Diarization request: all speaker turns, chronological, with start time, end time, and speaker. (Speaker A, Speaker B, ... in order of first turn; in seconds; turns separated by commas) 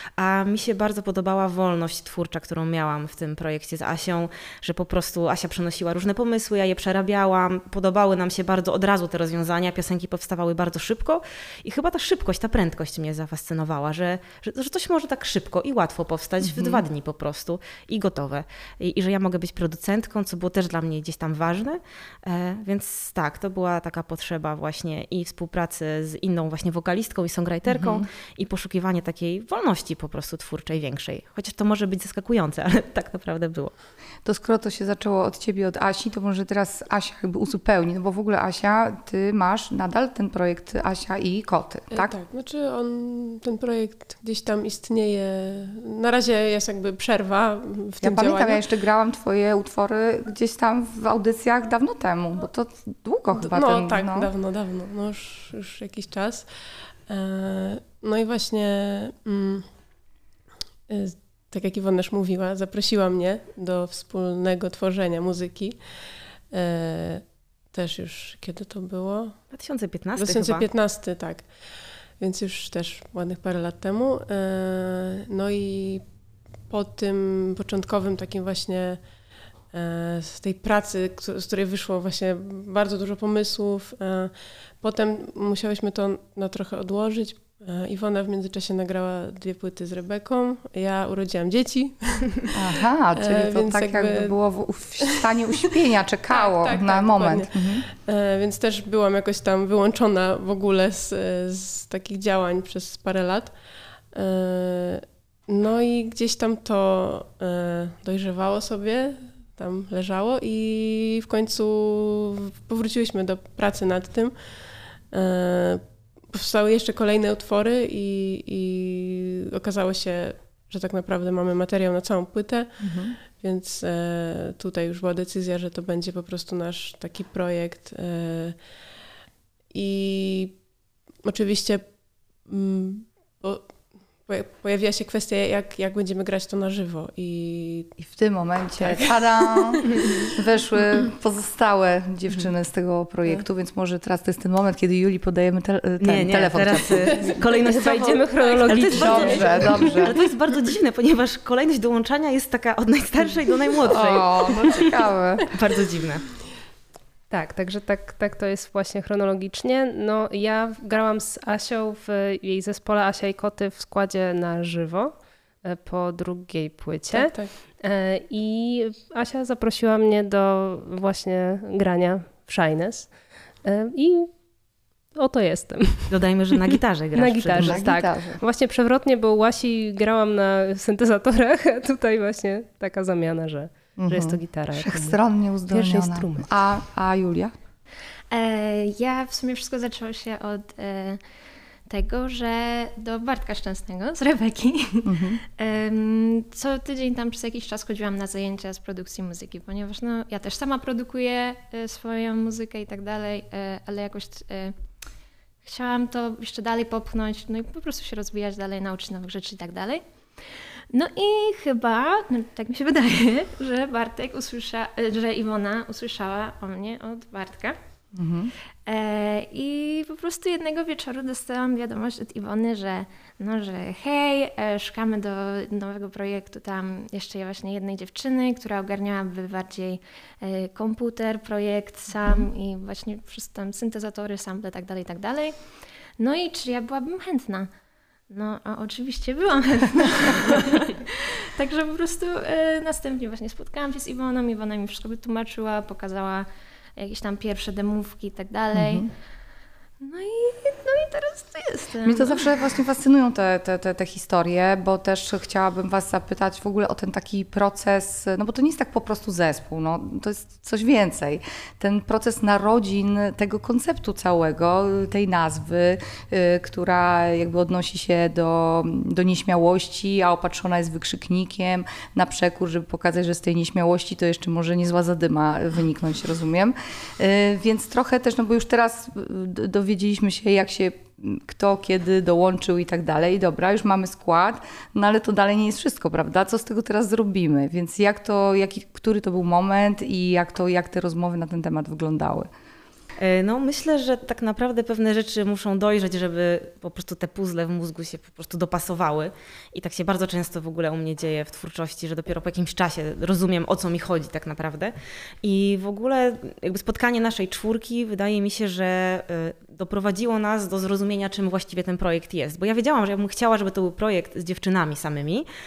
Speaker A: 0.2-33.7, Speaker B: 16.4-16.8, Speaker B: 27.7-28.1, Speaker B: 34.2-42.1, Speaker C: 41.9-48.6, Speaker B: 48.0-54.3, Speaker C: 53.4-56.5, Speaker C: 57.1-59.7, Speaker C: 60.9-65.9, Speaker C: 66.5-69.4, Speaker A: 69.5-70.7, Speaker C: 70.2-76.1, Speaker C: 76.7-92.5, Speaker B: 92.5-97.8, Speaker C: 93.2-94.3, Speaker C: 96.3-128.7, Speaker B: 122.8-123.2, Speaker C: 129.7-130.7, Speaker C: 131.2-137.9, Speaker B: 138.0-147.3, Speaker C: 138.8-140.3, Speaker A: 146.0-154.8, Speaker D: 147.4-150.1, Speaker B: 148.9-150.1, Speaker B: 153.8-155.5, Speaker A: 155.5-156.3, Speaker D: 157.3-174.3, Speaker C: 167.1-167.5, Speaker D: 175.1-176.1, Speaker A: 176.1-177.8, Speaker D: 176.7-185.2, Speaker B: 177.6-178.4, Speaker B: 184.0-187.5, Speaker D: 185.7-186.5, Speaker E: 188.3-191.2, Speaker E: 191.9-204.8, Speaker B: 195.0-195.4, Speaker E: 205.6-210.0, Speaker E: 210.9-217.8, Speaker B: 218.1-218.5, Speaker E: 218.8-235.6, Speaker E: 236.2-237.7, Speaker E: 238.3-249.1, Speaker B: 248.7-249.1, Speaker E: 250.0-252.4, Speaker B: 252.0-292.5, Speaker A: 293.2-315.5